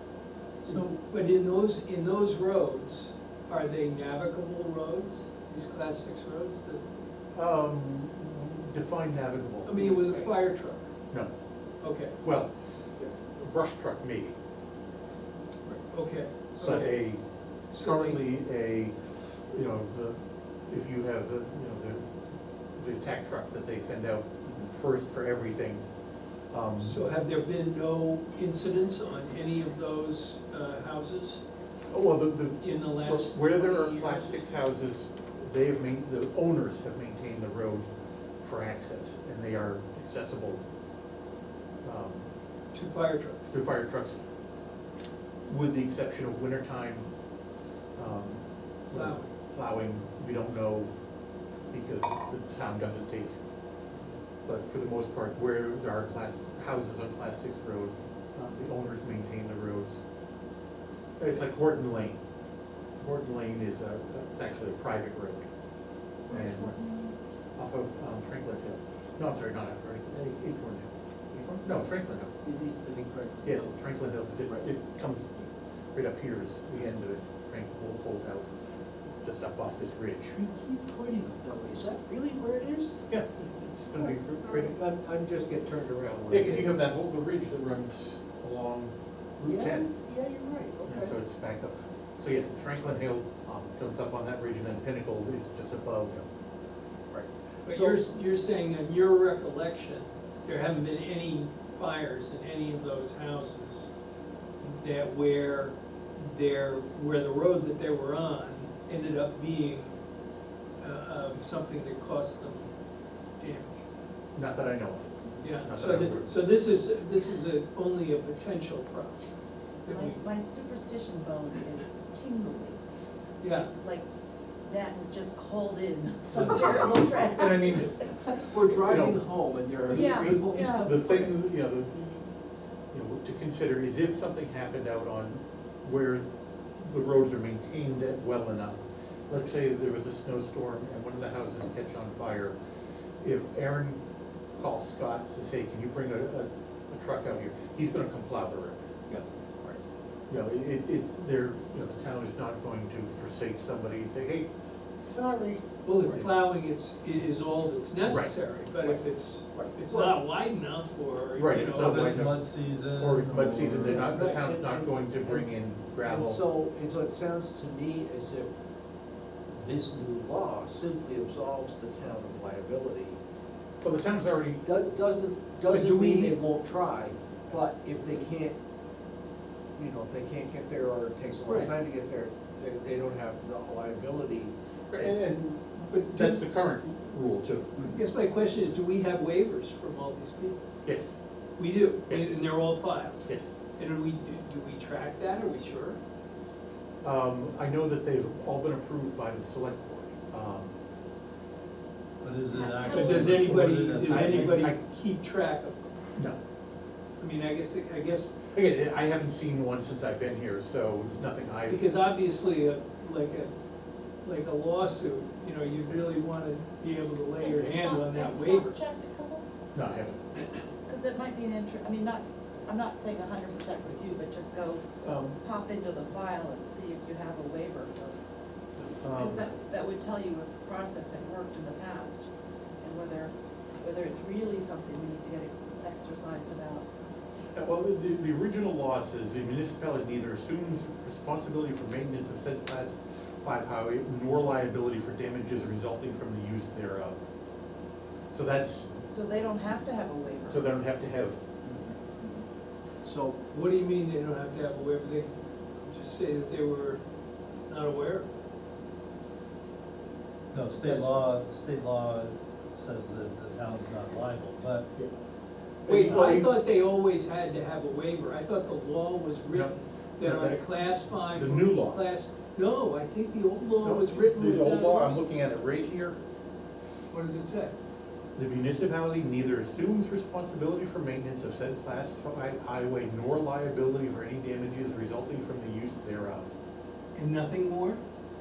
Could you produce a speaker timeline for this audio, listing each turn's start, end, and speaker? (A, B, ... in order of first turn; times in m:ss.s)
0:00.6-0:06.8 A
0:07.3-0:10.0 B
0:09.6-0:10.9 A
0:11.8-0:12.2 A
0:12.2-0:14.4 B
0:15.8-0:17.0 A
0:16.6-0:17.2 B
0:17.7-0:18.2 A
0:17.8-0:19.0 B
0:19.5-0:22.1 B
0:22.8-0:25.8 B
0:26.5-0:27.0 B
0:26.8-0:31.4 A
0:31.9-0:37.9 B
0:32.6-0:34.5 A
0:38.4-0:40.6 B
0:41.8-0:42.3 B
0:42.7-0:43.5 A
0:43.5-0:44.2 B
0:45.5-0:47.1 B
0:48.0-0:50.9 B
0:48.9-0:49.3 A
0:51.7-0:53.3 B
0:54.5-1:00.0 B
1:01.2-1:02.2 B
1:03.0-1:05.5 B
1:06.3-1:06.8 B
1:06.3-1:07.2 C
1:07.6-1:12.3 B
1:12.4-1:13.9 D
1:13.4-1:20.4 B
1:20.3-1:23.0 D
1:23.1-1:24.8 B
1:23.9-1:26.8 D
1:26.3-1:29.9 B
1:29.4-1:31.2 D
1:30.9-1:36.3 B
1:37.1-1:38.1 D
1:37.7-1:43.9 A
1:44.6-1:50.0 A
1:50.8-1:52.7 A
1:53.4-1:53.8 A
1:54.4-1:56.3 B
1:55.4-1:59.3 A
1:59.8-2:02.8 C
1:59.9-2:00.2 A
2:03.4-2:03.7 A
2:03.5-2:04.1 C
2:04.7-2:08.2 C
2:06.9-2:09.2 B
2:08.5-2:11.3 D
2:09.9-2:12.3 B
2:09.9-2:10.9 C
2:12.9-2:16.2 B
2:16.8-2:22.6 B
2:23.2-2:24.0 B
2:24.6-2:28.9 B
2:29.1-2:29.8 D
2:30.3-2:36.3 B
2:35.9-2:42.2 A
2:38.0-2:38.3 B
2:41.4-2:42.4 B
2:41.5-2:44.2 E
2:43.0-2:46.4 B
2:43.8-2:48.5 D
2:49.5-2:53.2 D
2:53.8-2:54.6 B
2:54.6-2:58.6 D
2:55.7-2:56.4 A
2:59.8-3:04.5 D
3:01.5-3:01.7 A
3:04.9-3:08.0 B
3:05.9-3:06.4 A
3:07.8-3:10.6 A
3:10.8-3:11.2 B
3:11.6-3:13.3 A
3:12.1-3:12.4 B
3:13.2-3:13.5 B
3:13.8-3:16.0 A
3:17.0-3:20.7 B
3:22.2-3:24.7 E
3:22.5-3:23.3 C
3:22.8-3:24.8 B
3:22.9-3:25.8 A
3:27.2-3:28.4 A
3:28.5-3:31.8 B
3:31.7-3:33.5 A
3:34.2-3:38.7 A
3:37.4-3:39.5 C
3:39.7-3:40.2 B
3:40.9-3:44.9 C
3:45.0-3:45.4 B
3:45.4-3:48.2 C
3:49.0-3:49.5 B
3:49.0-3:52.3 C
3:52.8-3:56.9 C
3:57.6-4:07.3 B
4:08.3-4:08.9 B
4:09.1-4:10.7 C
4:10.5-4:11.4 B
4:11.6-4:12.0 D
4:13.0-4:13.4 D
4:13.5-4:17.0 A
4:17.7-4:18.3 A
4:20.5-4:24.9 E
4:20.8-4:21.2 B
4:25.8-4:26.6 B
4:25.9-4:35.2 A
4:29.5-4:32.0 B
4:33.8-4:36.2 B
4:37.1-4:37.8 A
4:38.4-4:46.5 B
4:47.2-4:48.0 A